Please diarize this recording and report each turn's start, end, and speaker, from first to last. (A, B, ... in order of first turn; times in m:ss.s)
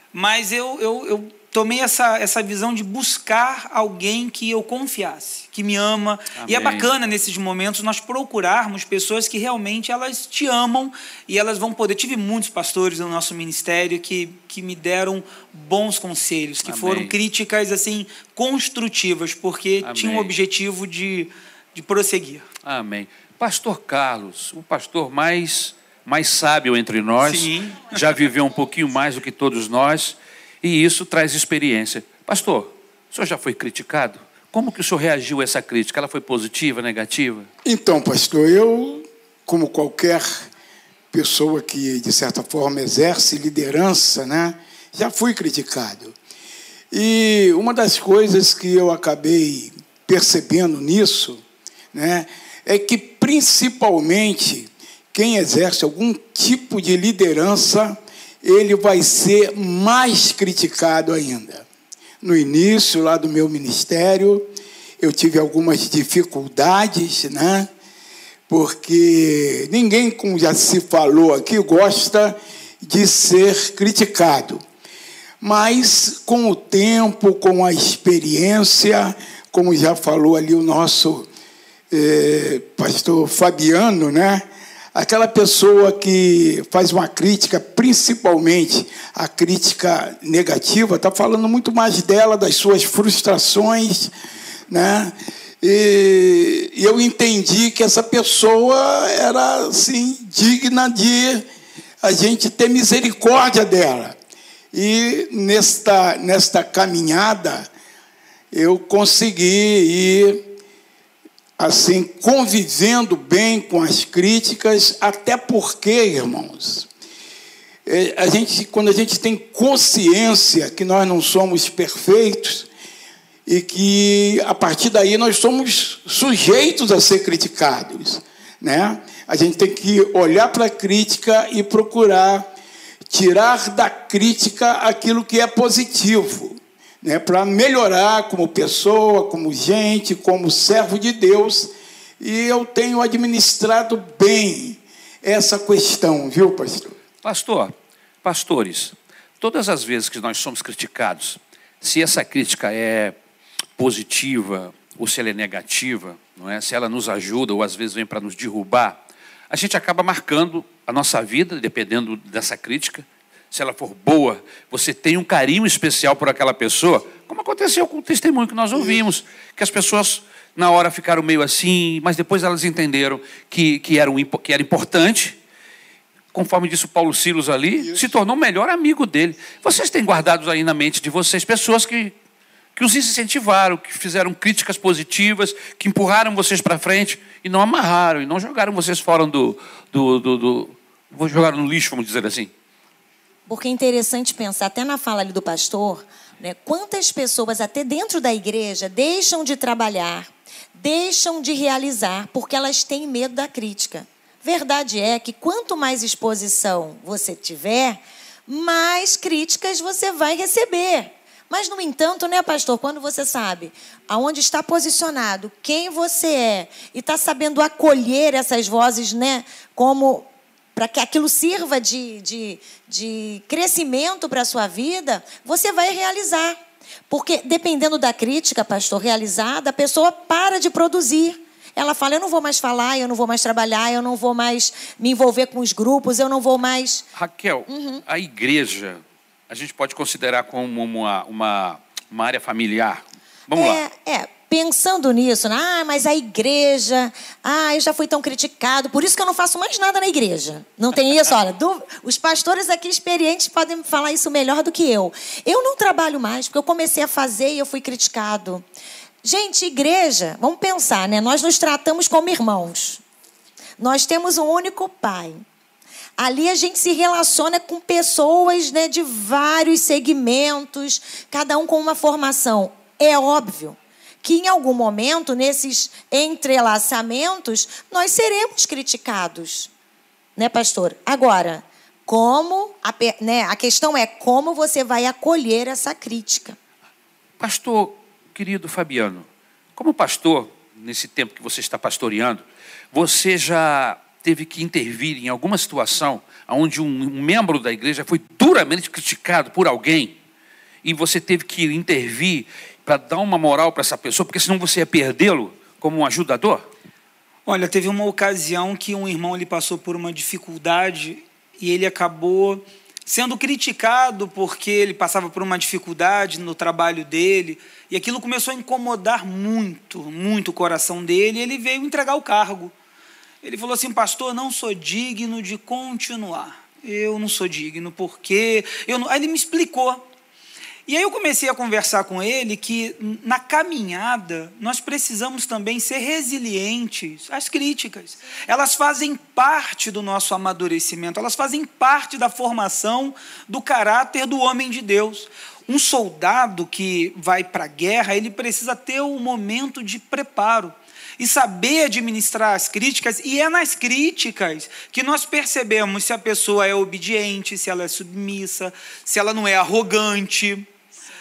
0:00.1-0:22.5 A
0:06.4-0:06.9 B
0:16.6-0:17.1 B
0:19.8-0:20.3 B
0:22.6-0:37.5 B
0:27.2-0:28.0 A
0:37.6-0:40.5 C
0:41.1-0:46.2 C
0:46.9-0:51.4 C
0:51.9-1:01.7 C
1:02.2-1:07.7 C
1:08.5-1:14.6 C
1:15.4-1:21.3 C
1:21.9-1:34.1 C
1:34.7-1:41.5 C
1:42.0-1:44.2 C
1:44.7-1:47.7 C
1:48.5-1:50.5 C
1:51.6-1:56.9 C
1:57.9-2:02.7 C
2:03.5-2:12.5 C
2:13.1-2:27.0 C
2:27.2-2:27.7 B
2:28.2-2:33.2 B
2:33.8-2:55.4 B
2:48.7-2:49.0 C
2:56.3-3:02.2 B
2:57.8-2:58.1 C
3:02.8-3:12.5 B
3:13.5-3:57.1 D
3:57.2-4:03.8 B
3:57.7-3:58.0 D
4:03.5-4:18.6 D
4:19.2-4:23.0 D
4:23.8-4:25.4 D
4:26.2-4:39.7 D
4:40.4-4:46.6 D
4:47.4-5:00.2 B
5:00.8-5:06.7 B
5:07.5-5:22.7 A
5:23.4-5:30.0 A
5:30.9-6:00.7 A